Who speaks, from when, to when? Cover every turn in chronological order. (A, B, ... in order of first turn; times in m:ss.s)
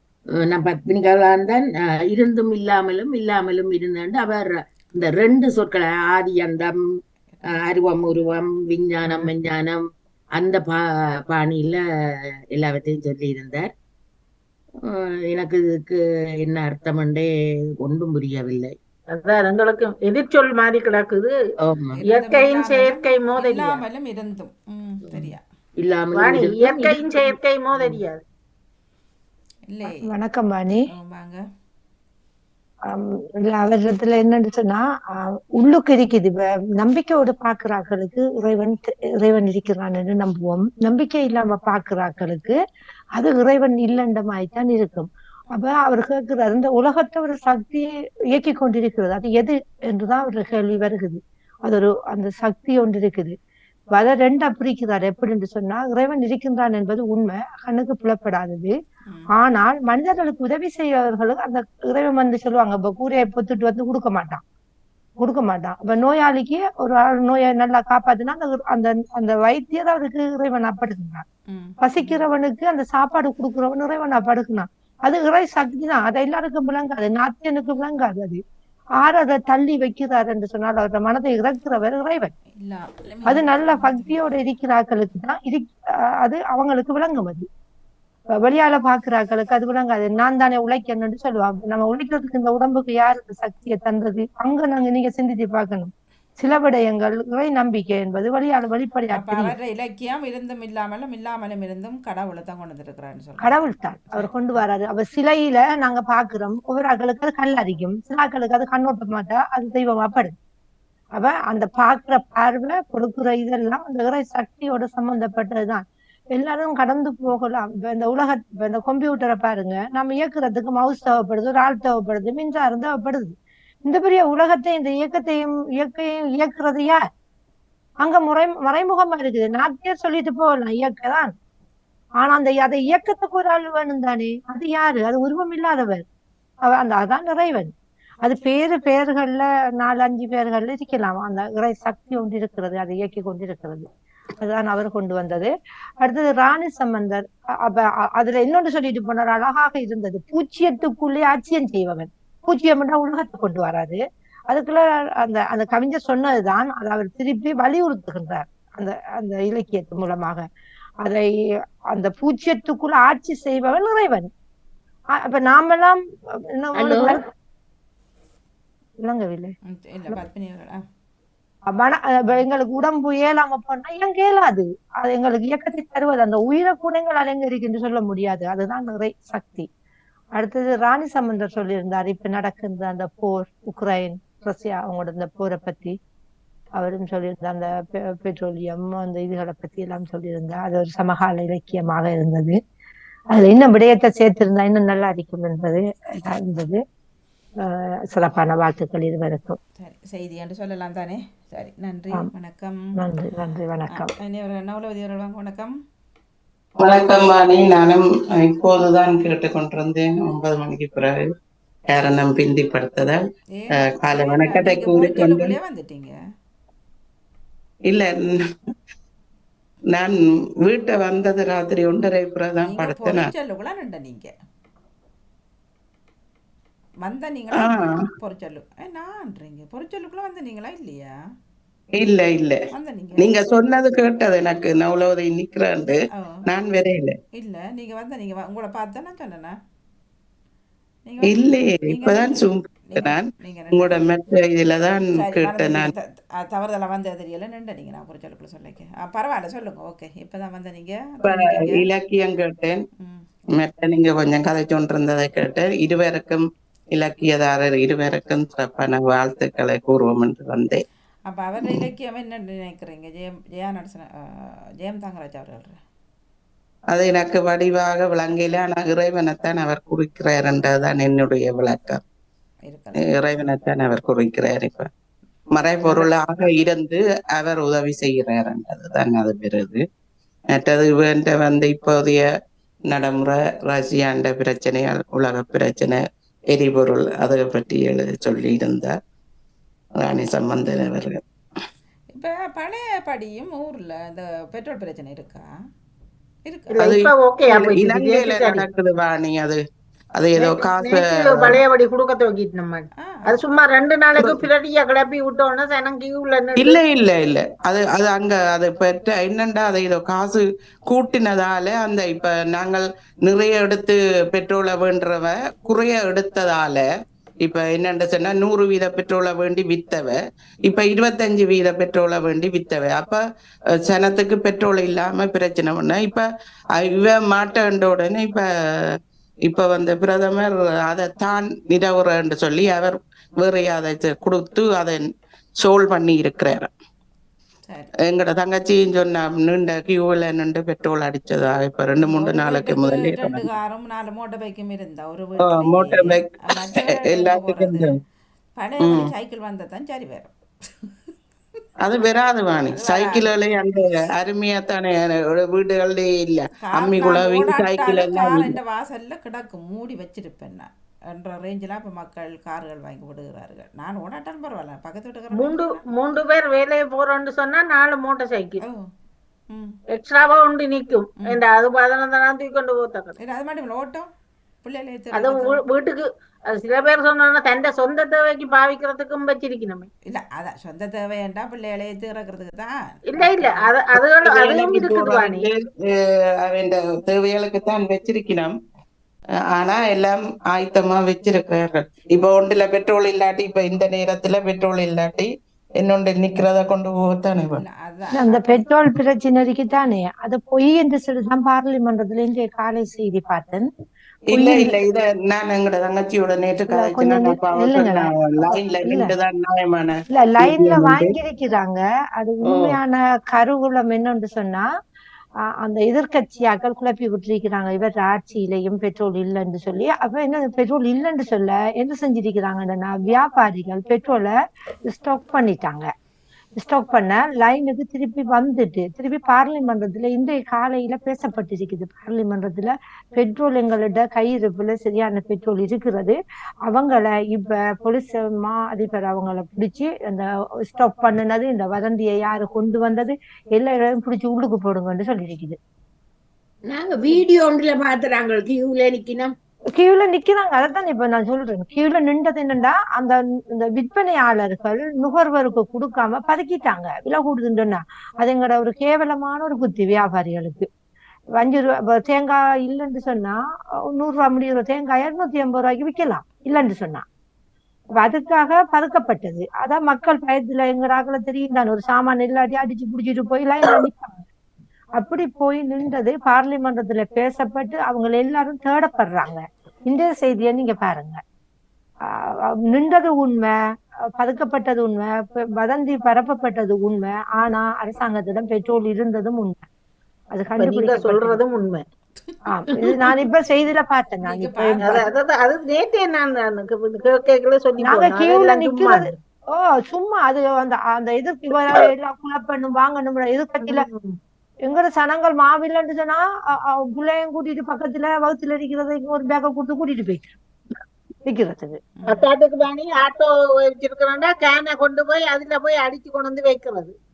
0:00.4-0:06.8 A
0:07.5-0:09.8 A
0:10.4-0:11.8 A
0:12.5-0:13.7 A
0:14.8-0:17.3 A
0:17.8-0:18.7 A
0:19.1-0:21.3 B
0:21.6-0:22.0 A
0:22.0-0:25.4 C
0:22.1-0:23.8 B
0:25.8-0:28.0 A
0:26.2-0:28.2 B
0:29.7-0:30.0 C
0:29.8-0:30.8 D
0:30.7-0:31.4 C
0:32.9-0:42.6 D
0:43.1-0:53.3 D
0:53.9-0:58.7 D
0:59.3-1:04.4 D
1:05.2-1:11.2 D
1:11.5-1:12.3 C
1:11.8-1:18.4 D
1:19.0-1:22.3 D
1:22.6-1:24.3 C
1:23.3-1:27.5 D
1:28.3-1:39.5 D
1:39.1-1:44.6 C
1:43.4-1:50.3 D
1:51.2-2:07.0 D
2:08.0-2:11.3 D
2:12.2-2:16.0 D
2:16.6-2:17.7 D
2:18.2-2:23.9 D
2:24.4-2:40.4 D
2:41.9-2:44.3 D
2:45.2-2:46.0 D
2:46.5-2:47.2 D
2:46.7-2:47.2 A
2:49.0-2:49.5 D
2:49.7-2:50.8 C
2:51.7-2:59.7 D
3:00.4-3:05.9 D
3:06.8-3:12.6 D
3:13.3-3:16.8 D
3:17.6-3:19.6 D
3:19.8-3:22.9 C
3:23.0-3:24.1 D
3:23.9-3:25.7 C
3:26.8-3:31.2 E
3:31.9-3:33.2 E
3:33.6-3:36.1 C
3:33.8-3:35.5 E
3:37.9-3:38.3 E
3:39.9-3:43.3 E
3:42.6-3:44.3 C
3:47.0-3:51.1 C
3:47.6-3:48.0 E
3:52.0-3:52.6 E
3:52.7-3:53.4 C
3:53.2-3:56.0 E
3:56.5-3:57.1 E
3:57.4-3:59.5 C
4:01.1-4:04.0 C
4:01.2-4:05.9 E
4:05.1-4:11.8 C
4:11.2-4:12.8 E
4:13.0-4:13.3 C
4:13.5-4:16.4 E
4:17.0-4:20.8 E
4:21.3-4:24.1 C
4:24.8-4:25.8 C
4:26.9-4:32.0 E
4:32.7-4:33.5 C
4:33.0-4:34.9 E
4:35.5-4:39.8 E
4:35.8-4:36.2 C
4:40.5-4:42.2 E
4:42.9-4:46.0 E
4:46.5-4:48.9 E
4:50.0-4:51.2 E
4:52.1-4:55.4 C
4:56.4-4:56.8 C
4:56.8-4:58.6 B
4:57.5-4:59.6 E
5:00.2-5:01.6 E
5:00.4-5:06.8 B
5:03.0-5:03.4 C
5:06.6-5:16.8 E
5:17.4-5:23.2 E
5:23.8-5:26.2 E
5:26.8-5:28.4 E
5:29.4-5:35.0 E
5:35.6-5:36.7 E
5:38.1-5:43.5 E
5:42.0-5:47.9 C
5:45.4-5:47.9 E
5:48.6-5:50.3 C
5:48.8-5:49.1 E
5:51.8-5:58.5 E
5:52.7-5:53.3 C
5:56.6-6:05.8 C
6:05.4-6:08.6 B
6:09.5-6:09.8 C
6:09.9-6:13.1 B
6:13.2-6:14.1 C
6:14.6-6:15.6 C
6:15.2-6:19.9 B
6:20.1-6:23.7 C
6:23.1-6:25.4 B
6:24.2-6:28.5 E
6:29.5-6:37.6 E
6:37.6-6:38.6 C
6:38.2-6:43.7 D
6:44.3-6:51.2 E
6:44.3-6:44.8 D
6:46.7-6:49.1 D
6:50.1-6:54.7 D
6:52.5-6:52.8 A
6:55.6-7:04.3 D
7:04.9-7:05.9 D
7:06.6-7:25.6 D
7:26.7-7:29.3 A
7:29.7-7:40.7 D
7:41.4-7:47.0 D
7:48.0-7:54.2 D
7:55.0-8:01.2 D
8:02.1-8:03.5 D
8:04.2-8:09.6 D
8:10.3-8:11.4 D
8:10.6-8:11.8 B
8:12.5-8:15.0 D
8:14.2-8:15.0 C
8:14.8-8:19.1 B
8:17.8-8:23.9 D
8:23.6-8:24.1 B
8:24.6-8:30.4 D
8:31.2-8:31.8 D
8:32.0-8:32.3 C
8:32.1-8:36.9 B